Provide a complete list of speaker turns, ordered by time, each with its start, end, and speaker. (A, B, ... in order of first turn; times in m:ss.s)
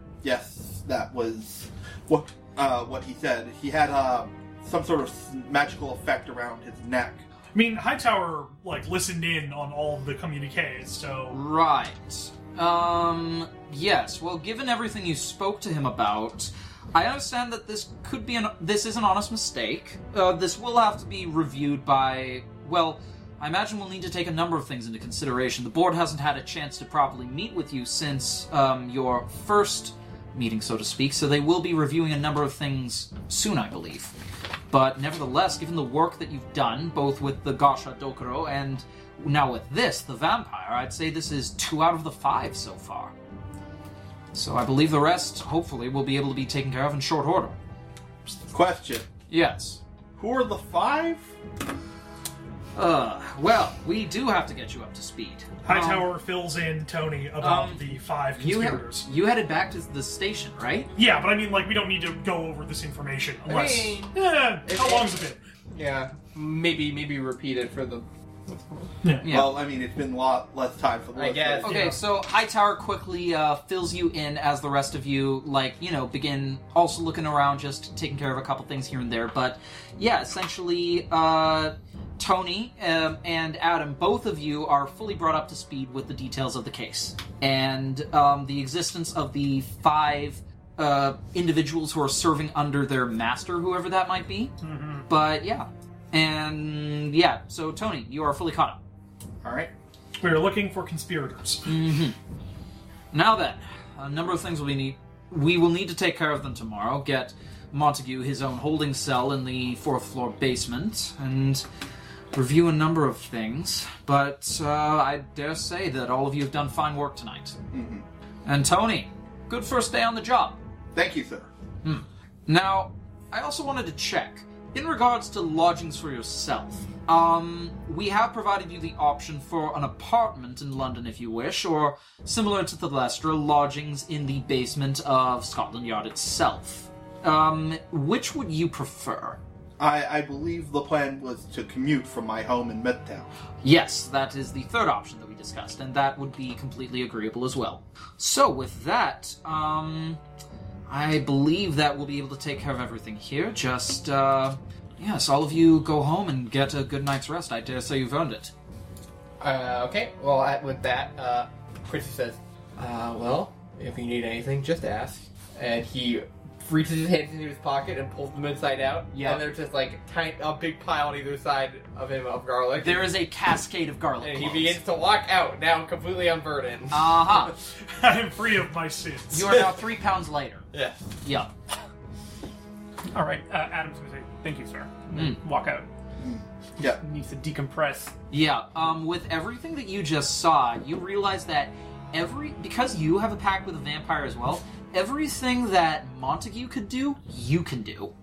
0:00.2-0:07.2 A
0:07.5-0:11.4 B
0:11.3-0:34.1 C
0:34.7-0:43.1 C
0:44.3-0:47.6 C
0:48.5-0:49.1 A
0:49.3-0:49.8 C
0:50.2-0:51.3 A
0:52.8-0:56.1 C
0:55.6-0:59.1 B
0:57.4-1:00.9 C
1:00.9-1:05.4 B
1:03.4-1:05.1 D
1:05.7-1:08.9 D
1:09.0-1:09.3 B
1:09.2-1:09.6 C
1:09.3-1:11.9 A
1:11.1-1:12.0 D
1:11.6-1:34.5 C
1:34.6-1:35.0 B
1:35.1-1:38.8 C
1:39.4-1:39.7 A
1:40.2-1:41.7 B
1:41.6-1:42.2 C
1:43.1-1:51.6 C
1:52.3-1:57.6 C
1:57.7-1:58.0 A
1:58.4-2:00.6 C
2:00.9-2:01.5 A
2:01.8-2:19.4 C
2:19.8-2:23.3 A
2:23.6-2:30.2 C
2:30.9-2:38.5 C
2:39.4-2:53.1 D
2:49.1-2:49.4 C
2:52.8-2:54.8 C
2:54.2-2:57.5 D
2:56.9-2:57.6 C
2:57.9-2:59.5 B
2:59.3-3:00.7 C
3:00.7-3:01.1 D
3:01.2-3:01.5 C
3:03.1-3:05.9 E
3:05.1-3:05.4 C
3:06.2-3:07.0 A
3:06.8-3:08.1 E
3:08.3-3:18.1 C